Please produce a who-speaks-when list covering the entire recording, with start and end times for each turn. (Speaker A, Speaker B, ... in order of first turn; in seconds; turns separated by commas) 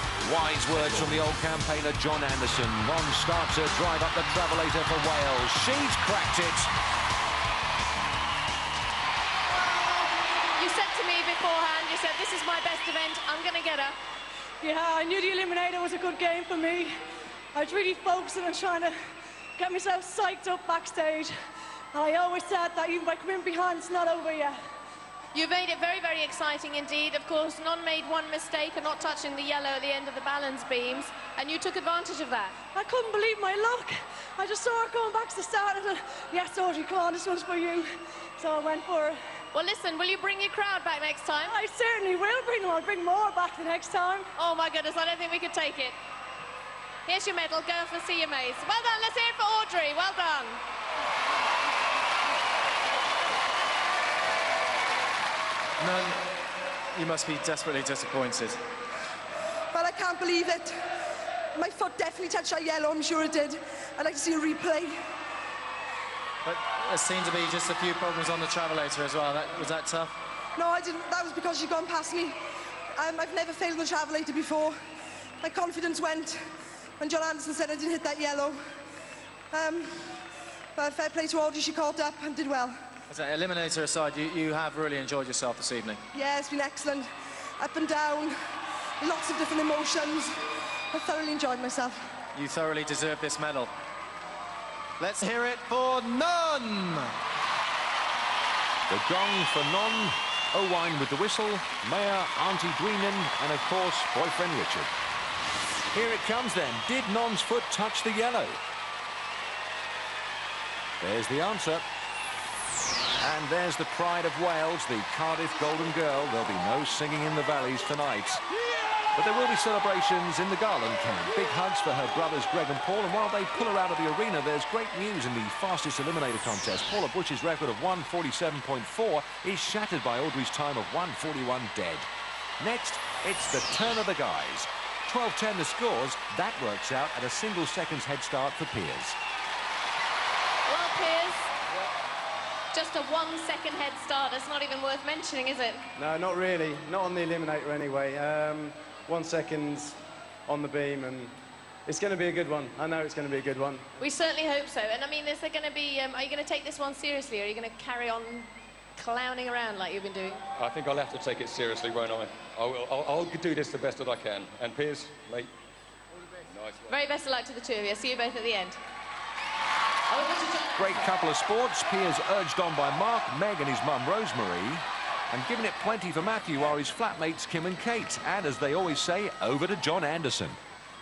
Speaker A: 0.2-6.7, Speaker B: 9.7-13.9, Speaker C: 14.6-16.9, Speaker C: 17.5-18.9, Speaker C: 19.6-21.3, Speaker C: 21.9-24.6, Speaker B: 25.3-32.6, Speaker C: 32.7-39.2, Speaker B: 39.5-41.6, Speaker C: 41.5-44.3, Speaker B: 44.4-46.0, Speaker B: 47.1-50.6, Speaker D: 55.8-56.2, Speaker D: 57.0-58.6, Speaker E: 59.7-60.7, Speaker E: 61.5-65.0, Speaker D: 66.5-70.1, Speaker E: 70.6-72.4, Speaker E: 73.0-74.8, Speaker E: 75.4-76.4, Speaker E: 77.0-78.6, Speaker E: 79.5-80.1, Speaker E: 80.8-82.8, Speaker D: 83.1-86.0, Speaker E: 86.1-87.1, Speaker E: 87.6-88.3, Speaker E: 89.0-90.4, Speaker E: 90.9-92.0, Speaker D: 92.3-93.7, Speaker D: 95.0-97.1, Speaker A: 98.9-104.9, Speaker A: 105.9-108.6, Speaker A: 111.0-111.8, Speaker A: 113.2-118.4, Speaker A: 119.2-132.1, Speaker A: 132.6-139.2, Speaker B: 140.7-141.5, Speaker B: 142.7-145.9, Speaker F: 146.0-151.3, Speaker F: 151.9-153.8, Speaker B: 154.0-160.4, Speaker G: 160.6-165.5, Speaker G: 166.5-167.0, Speaker B: 166.9-168.8, Speaker B: 170.1-171.1, Speaker A: 170.8-180.6